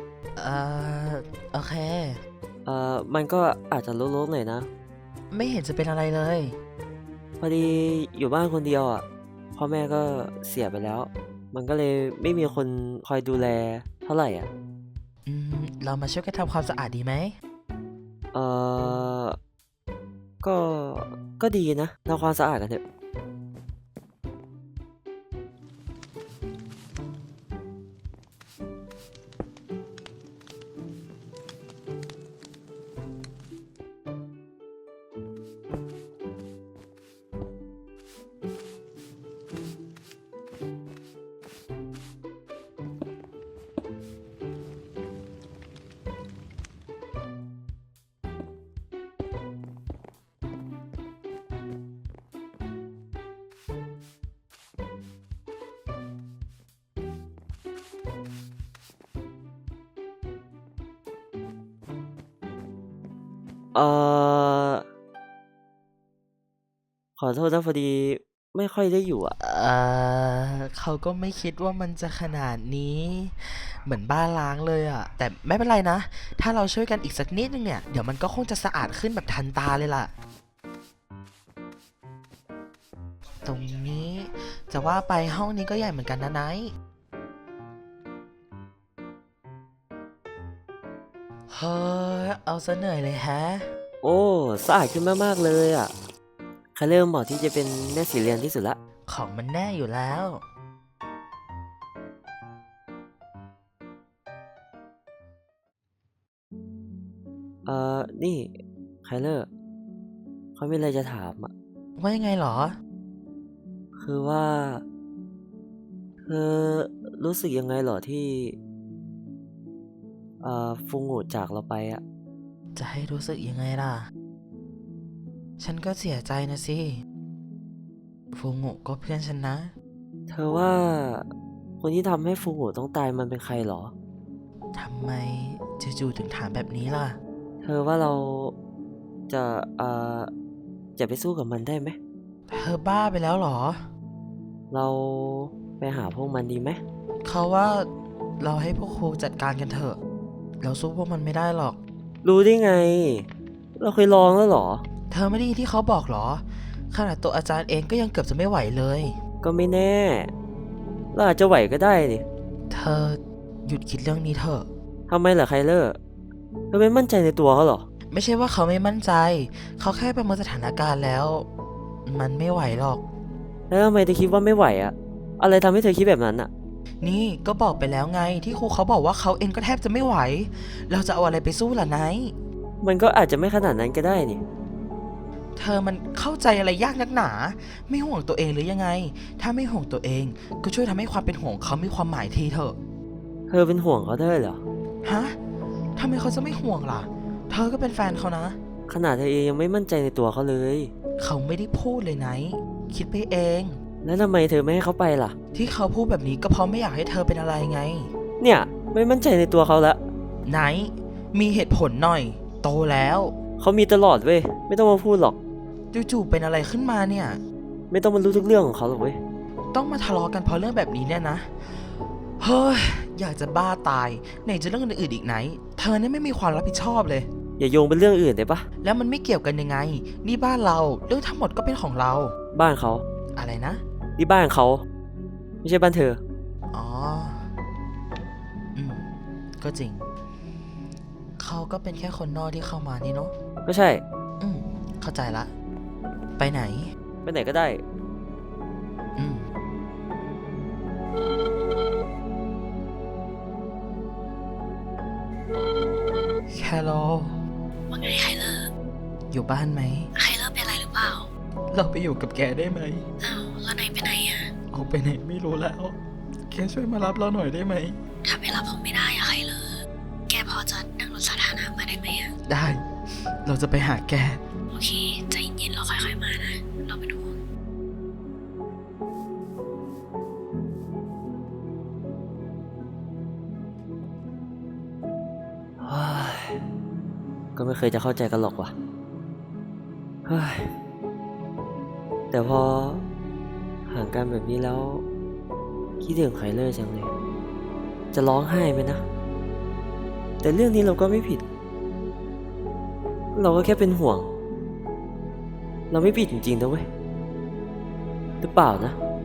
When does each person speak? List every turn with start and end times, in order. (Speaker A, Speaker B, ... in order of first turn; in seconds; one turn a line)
Speaker A: 0.4-2.2
Speaker B: 2.6-4.7
Speaker A: 5.3-6.6
Speaker B: 7.4-9.0
Speaker B: 9.5-14.5
Speaker A: 15.2-17.4
Speaker B: 18.3-19.4
Speaker B: 20.4-22.8
Speaker B: 63.7-64.8
Speaker B: 67.2-69.3
Speaker A: 69.3-80.1
Speaker A: 83.4-86.7
Speaker A: 91.5-93.7
Speaker B: 94.0-95.9
Speaker B: 96.7-98.8
Speaker A: 99.1-100.4
Speaker B: 107.7-108.5
Speaker B: 109.0-109.5
Speaker B: 110.5-111.5
Speaker A: 112.0-112.8
Speaker B: 114.0-114.8
Speaker B: 116.2-118.6
Speaker B: 120.4-122.0
Speaker A: 122.7-124.1
Speaker A: 125.6-127.0
Speaker A: 128.3-129.7
Speaker B: 130.3-131.3
Speaker B: 131.8-133.9
Speaker A: 134.8-137.2
Speaker B: 137.6-138.5
Speaker B: 139.3-140.3
Speaker B: 141.0-142.0
Speaker A: 142.5-143.9
Speaker B: 144.7-146.8
Speaker A: 147.2-147.9
Speaker A: 148.4-150.0
Speaker A: 150.6-151.8
Speaker B: 152.2-154.8
Speaker A: 155.1-159.2
Speaker B: 159.4-160.3
Speaker B: 161.1-162.2
Speaker A: 162.7-164.7
Speaker B: 165.1-166.0
Speaker B: 166.7-167.8
Speaker A: 168.1-171.5
Speaker A: 172.1-173.0
Speaker B: 173.7-176.5
Speaker A: 177.0-182.3
Speaker B: 182.8-184.4
Speaker A: 185.6-192.8
Speaker B: 193.5-194.6
Speaker A: 195.0-195.4
Speaker A: 196.0-198.6
Speaker B: 198.9-200.9
Speaker A: 201.2-203.8
Speaker B: 204.0-205.3
Speaker A: 205.5-208.1
Speaker B: 208.4-210.0
Speaker A: 210.4-213.3
Speaker B: 213.6-215.4
Speaker A: 215.9-217.4
Speaker B: 217.9-219.2
Speaker A: 219.7-221.5
Speaker A: 222.4-227.3
Speaker B: 227.6-228.7
Speaker A: 228.8-232.3
Speaker B: 232.5-233.0
Speaker A: 233.3-233.8
Speaker B: 234.2-234.8
Speaker B: 235.6-236.2
Speaker A: 236.7-237.5
Speaker A: 238.8-239.0
Speaker A: 239.6-240.1
Speaker A: 241.4-243.3
Speaker B: 243.6-244.0
Speaker A: 244.4-245.5
Speaker A: 246.4-246.9
Speaker B: 247.2-247.8
Speaker A: 249.2-249.4
Speaker A: 256.5-257.4
Speaker C: 257.9-258.6
Speaker A: 259.3-260.1
Speaker C: 260.2-261.3
Speaker A: 261.7-263.0
Speaker C: 263.2-264.4
Speaker A: 264.7-266.0
Speaker A: 266.5-267.9
Speaker C: 268.2-269.8
Speaker C: 270.3-272.3
Speaker A: 272.5-274.4
Speaker C: 274.7-277.4
Speaker B: 285.8-286.6
Speaker B: 287.6-288.7
Speaker B: 290.2-290.7
Speaker B: 292.3-293.0
Speaker B: 293.9-295.0
Speaker B: 296.0-297.1
Speaker B: 298.1-299.0
Speaker B: 300.4-301.4
Speaker B: 303.3-304.3
Speaker B: 305.9-306.9
Speaker B: 308.4-308.9